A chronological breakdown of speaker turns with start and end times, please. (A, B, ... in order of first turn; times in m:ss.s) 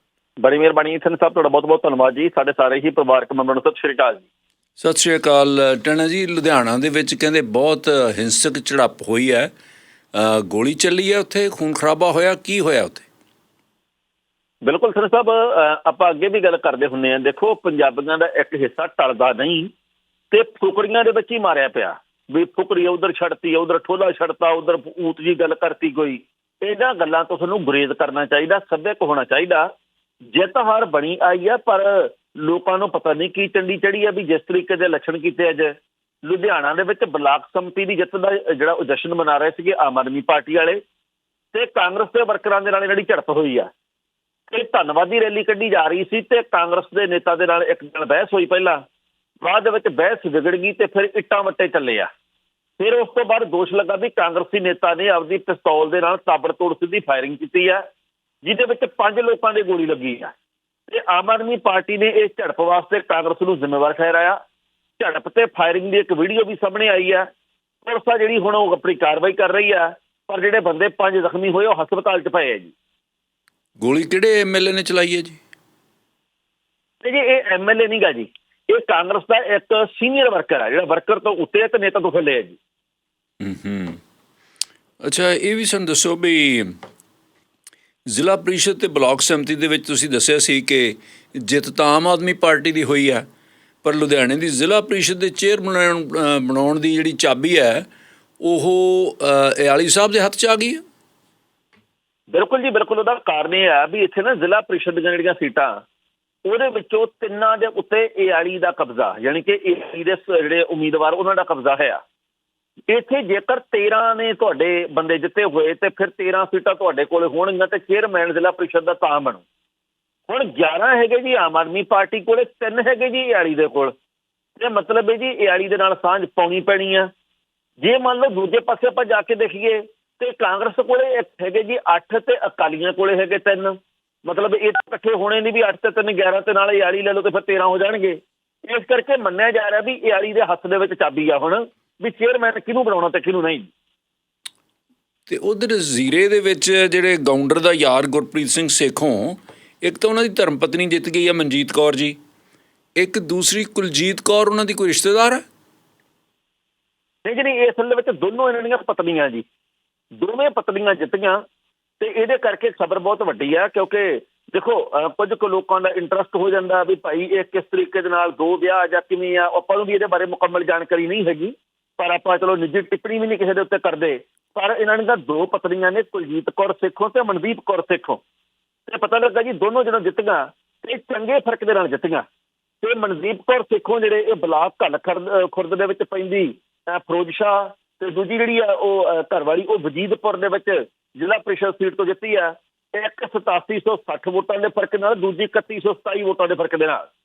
0:00.4-0:04.2 A
0:04.8-0:09.5 B
0:10.1-0:13.1 B
0:14.6-0:19.7 A
0:20.3-0:29.7 A
0:30.3-0:40.8 A
0:41.5-0:43.7 A
0:44.5-0:48.8 A
0:49.4-0:52.1 A
0:52.8-0:57.8 A
0:58.4-1:00.3 A
1:00.9-1:04.4 A
1:05.0-1:07.3 A
1:07.8-1:12.7 A
1:13.8-1:15.4 B
1:17.0-1:22.6 A
1:23.4-1:24.0 B
1:25.0-1:26.8 B
1:28.1-1:33.2 B
1:33.8-1:37.8 B
1:38.4-1:40.8 B
1:42.3-1:45.8 A
1:46.5-1:52.0 A
1:52.9-1:59.4 A
2:00.3-2:03.9 A
2:04.6-2:07.1 A
2:07.8-2:23.7 A
2:25.3-2:32.2 B
2:33.0-2:35.4 B
2:37.2-2:39.4 A
2:40.2-2:41.4 A
2:42.0-2:58.2 A
2:58.9-3:02.2 A
3:02.8-3:17.0 A